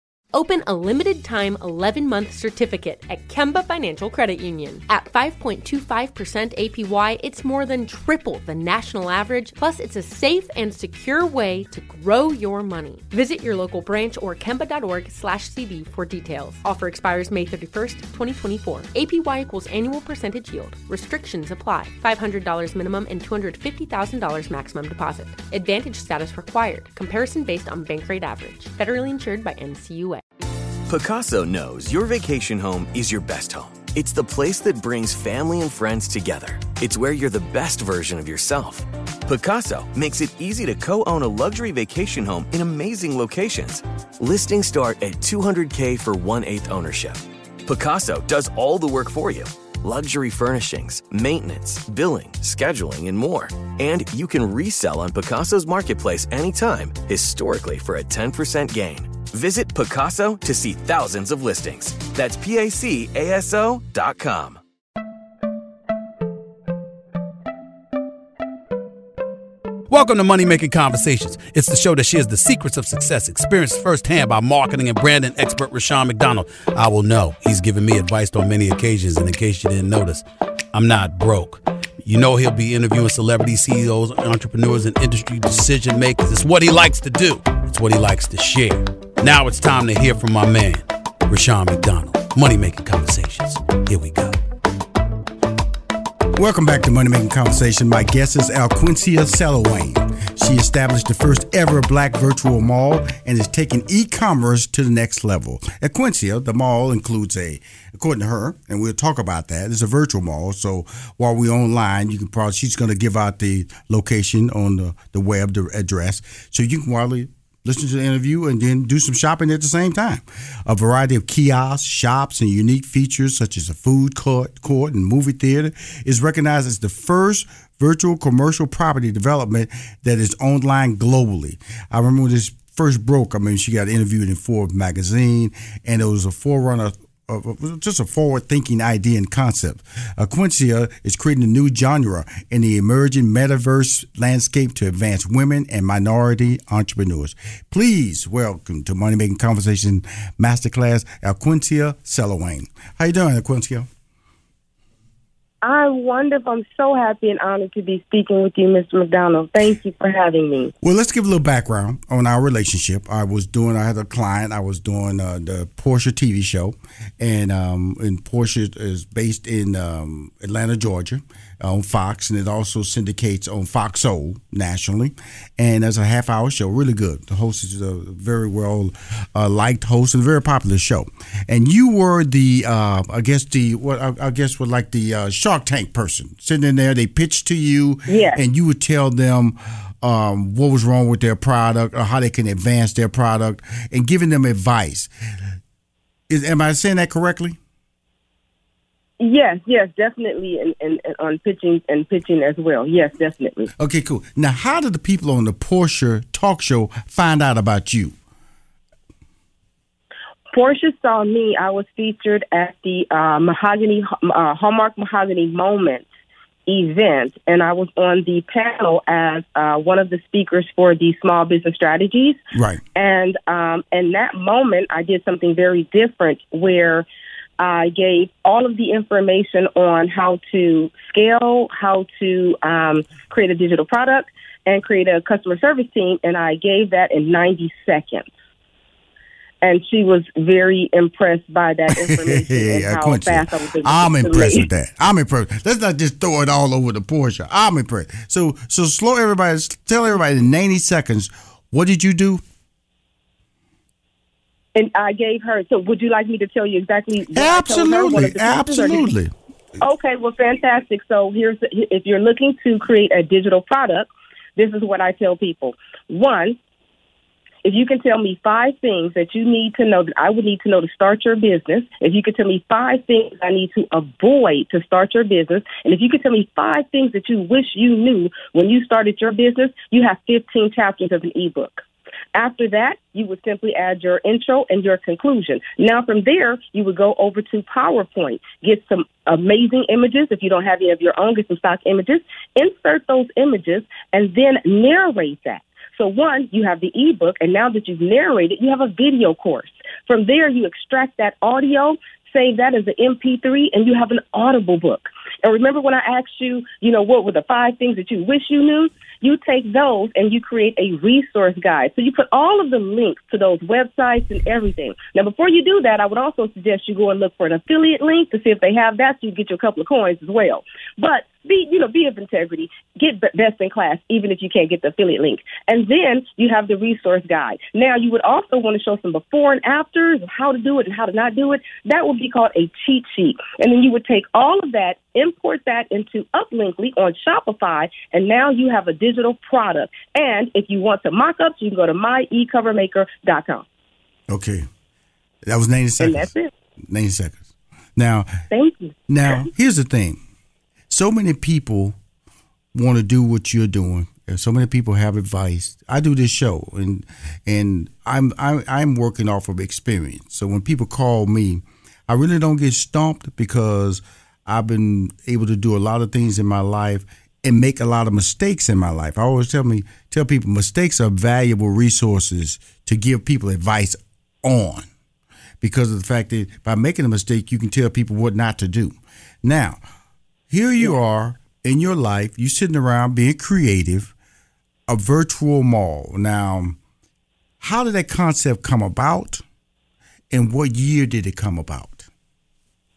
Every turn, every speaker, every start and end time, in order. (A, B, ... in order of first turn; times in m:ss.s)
0:00.3-0:30.2 A
0:30.9-1:04.6 B
1:09.9-1:34.4 C
1:36.4-2:33.9 D
2:35.6-2:40.7 E
2:40.8-3:15.1 D
3:08.1-3:08.4 E
3:16.3-3:17.6 D
3:19.2-3:23.7 E
3:23.8-3:28.1 D
3:30.5-3:36.0 E
3:36.7-3:42.4 E
3:42.5-3:42.8 D
3:43.0-3:47.0 E
3:47.6-3:58.3 E
3:59.6-4:04.6 E
4:02.0-4:12.4 D
4:14.7-4:19.1 E
4:17.3-4:19.3 D
4:19.8-4:26.6 E
4:27.6-4:41.8 E
4:42.3-5:43.6 E
5:44.3-5:44.6 D
5:45.4-5:46.3 D
5:46.0-5:46.5 E
5:46.9-5:47.4 D
5:48.0-5:48.3 D
5:48.5-5:48.9 E
5:49.1-5:50.2 D
5:50.9-5:52.0 D
5:52.7-6:14.9 D
6:15.6-6:19.8 D
6:20.5-6:24.1 D
6:24.9-6:26.8 D
6:27.6-6:29.4 D
6:30.3-6:32.1 D